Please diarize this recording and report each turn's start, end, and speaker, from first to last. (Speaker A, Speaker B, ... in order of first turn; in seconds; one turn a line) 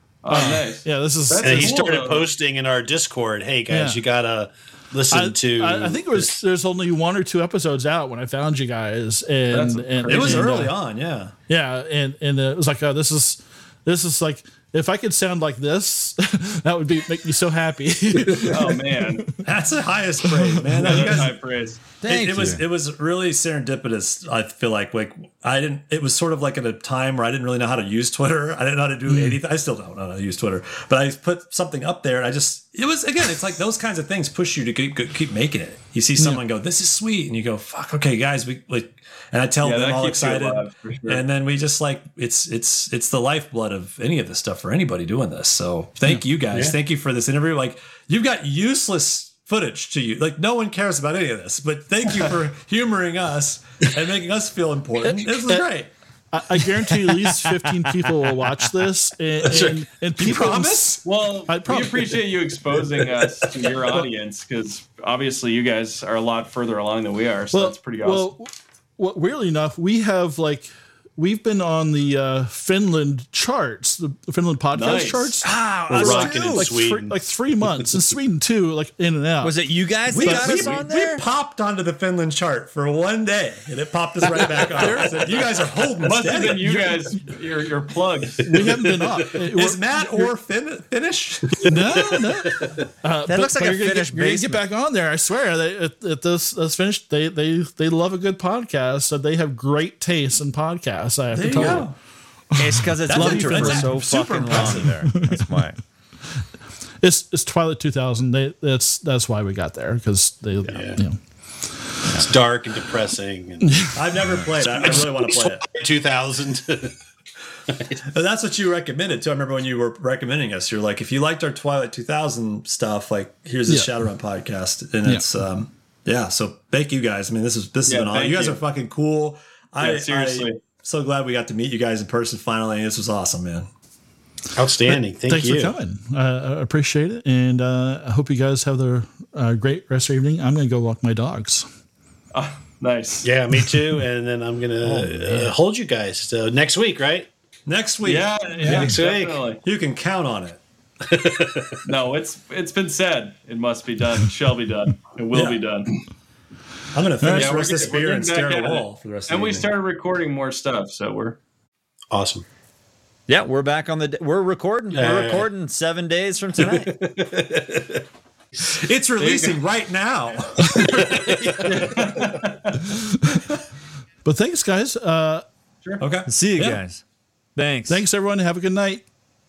Speaker A: 0.2-2.3
Speaker B: 0.3-1.8
Speaker C: 1.4-6.3
Speaker B: 3.7-4.0
Speaker B: 5.1-10.7
Speaker A: 9.5-10.6
Speaker D: 10.1-11.3
Speaker B: 11.5-19.4
Speaker A: 18.4-19.3
Speaker D: 19.4-21.4
Speaker B: 20.3-21.2
Speaker A: 20.8-21.8
Speaker E: 22.0-22.6
Speaker D: 22.1-55.9
Speaker B: 29.1-29.4
Speaker A: 39.6-41.2
Speaker B: 55.3-55.7
Speaker B: 56.3-62.2
Speaker C: 56.9-57.4
Speaker C: 59.4-59.8
Speaker D: 60.2-61.0
Speaker A: 61.0-68.3
Speaker C: 63.4-63.7
Speaker B: 67.5-79.5
Speaker A: 74.8-75.4
Speaker E: 75.4-76.7
Speaker C: 75.9-77.2
Speaker E: 79.4-81.2
Speaker D: 80.1-86.8
Speaker A: 80.2-80.8
Speaker C: 84.4-85.0
Speaker B: 84.8-85.2
Speaker A: 86.0-88.8
Speaker B: 86.6-87.1
Speaker C: 88.5-89.4
Speaker B: 88.5-90.3
Speaker D: 89.5-92.2
Speaker C: 91.5-92.9
Speaker B: 91.7-102.0
Speaker E: 93.3-94.6
Speaker D: 101.3-102.0
Speaker E: 102.6-105.8
Speaker D: 103.1-105.1
Speaker B: 103.1-104.0
Speaker B: 105.1-105.5
Speaker B: 107.0-112.3
Speaker C: 110.6-111.0
Speaker C: 112.1-113.9
Speaker B: 113.6-114.1
Speaker D: 113.9-115.6
Speaker C: 114.6-117.0
Speaker C: 117.7-118.0
Speaker D: 118.1-133.7
Speaker B: 123.7-123.9
Speaker A: 127.9-128.6
Speaker A: 129.8-130.6
Speaker C: 134.6-135.8
Speaker B: 135.3-141.7
Speaker A: 142.3-143.3
Speaker C: 143.2-147.3
Speaker E: 144.9-145.5
Speaker B: 144.9-145.2
Speaker D: 147.7-148.9
Speaker A: 148.0-149.6
Speaker B: 148.6-148.9
Speaker C: 148.7-149.4
Speaker D: 149.6-150.6
Speaker C: 151.1-151.8
Speaker A: 151.8-155.9
Speaker D: 155.3-155.6
Speaker D: 156.9-159.7
Speaker B: 157.2-157.5
Speaker A: 157.3-161.4
Speaker C: 162.1-162.4
Speaker E: 163.3-166.9
Speaker C: 164.9-165.5
Speaker C: 166.6-168.0
Speaker C: 168.6-169.6
Speaker D: 168.7-171.4
Speaker C: 170.8-172.1
Speaker A: 171.6-172.8
Speaker D: 173.3-173.6
Speaker B: 174.2-175.4
Speaker D: 176.0-176.8
Speaker E: 176.3-177.0
Speaker E: 177.6-178.1
Speaker B: 177.9-179.0